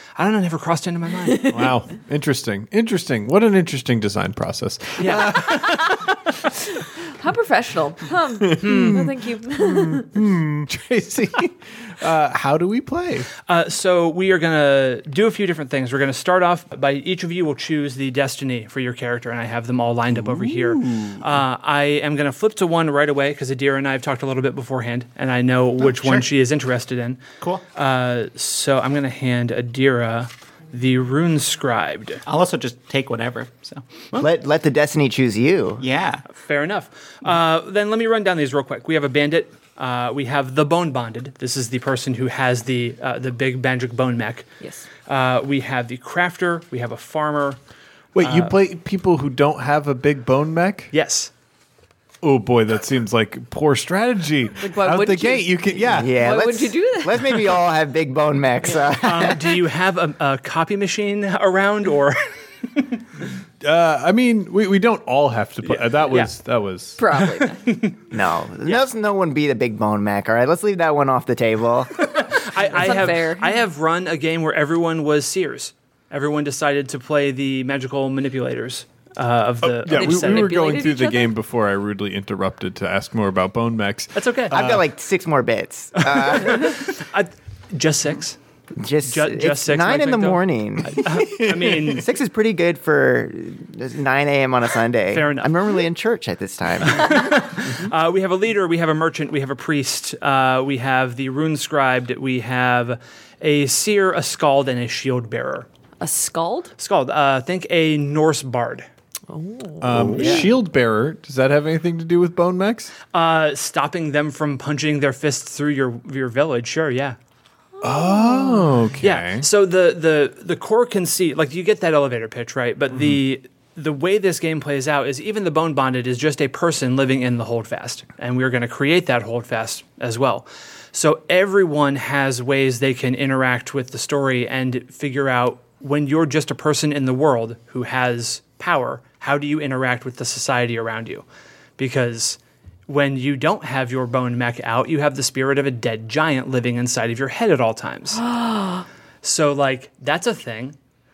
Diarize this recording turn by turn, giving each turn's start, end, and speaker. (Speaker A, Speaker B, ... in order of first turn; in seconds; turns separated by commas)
Speaker A: 0.1-1.5, Speaker B: 1.3-1.7, Speaker C: 1.4-6.5, Speaker A: 5.0-5.4, Speaker B: 5.5-6.0, Speaker B: 6.8-10.1, Speaker C: 8.4-13.3, Speaker A: 8.6-9.1, Speaker A: 13.5-32.2, Speaker C: 20.1-21.3, Speaker D: 25.8-26.2, Speaker D: 32.2-34.2, Speaker E: 34.1-35.8, Speaker D: 35.8-36.2, Speaker A: 36.3-44.5, Speaker B: 44.6-44.9, Speaker A: 45.0-47.6, Speaker C: 48.1-50.9, Speaker A: 48.2-48.5, Speaker A: 50.9-51.3, Speaker C: 52.2-56.2, Speaker B: 54.6-57.4, Speaker E: 55.9-59.6, Speaker A: 59.0-63.0, Speaker C: 63.6-67.0, Speaker A: 65.6-66.3, Speaker B: 67.0-67.6, Speaker A: 67.4-68.0, Speaker E: 68.1-72.0, Speaker A: 72.0-80.5, Speaker B: 72.6-73.6, Speaker C: 79.6-84.9, Speaker B: 79.9-81.3, Speaker A: 84.1-84.5, Speaker E: 84.5-86.8, Speaker A: 86.0-88.4, Speaker E: 88.8-91.0, Speaker A: 89.0-92.1, Speaker C: 91.0-92.0, Speaker E: 91.8-97.2, Speaker A: 95.1-95.5, Speaker A: 96.8-105.7, Speaker B: 106.0-106.7, Speaker A: 106.8-108.8, Speaker B: 109.3-110.5, Speaker C: 109.8-112.9, Speaker E: 109.9-110.5, Speaker A: 113.1-117.2, Speaker B: 117.8-118.8, Speaker C: 117.8-119.5, Speaker A: 119.0-141.2, Speaker A: 141.8-148.2, Speaker B: 148.2-148.8, Speaker A: 149.2-150.8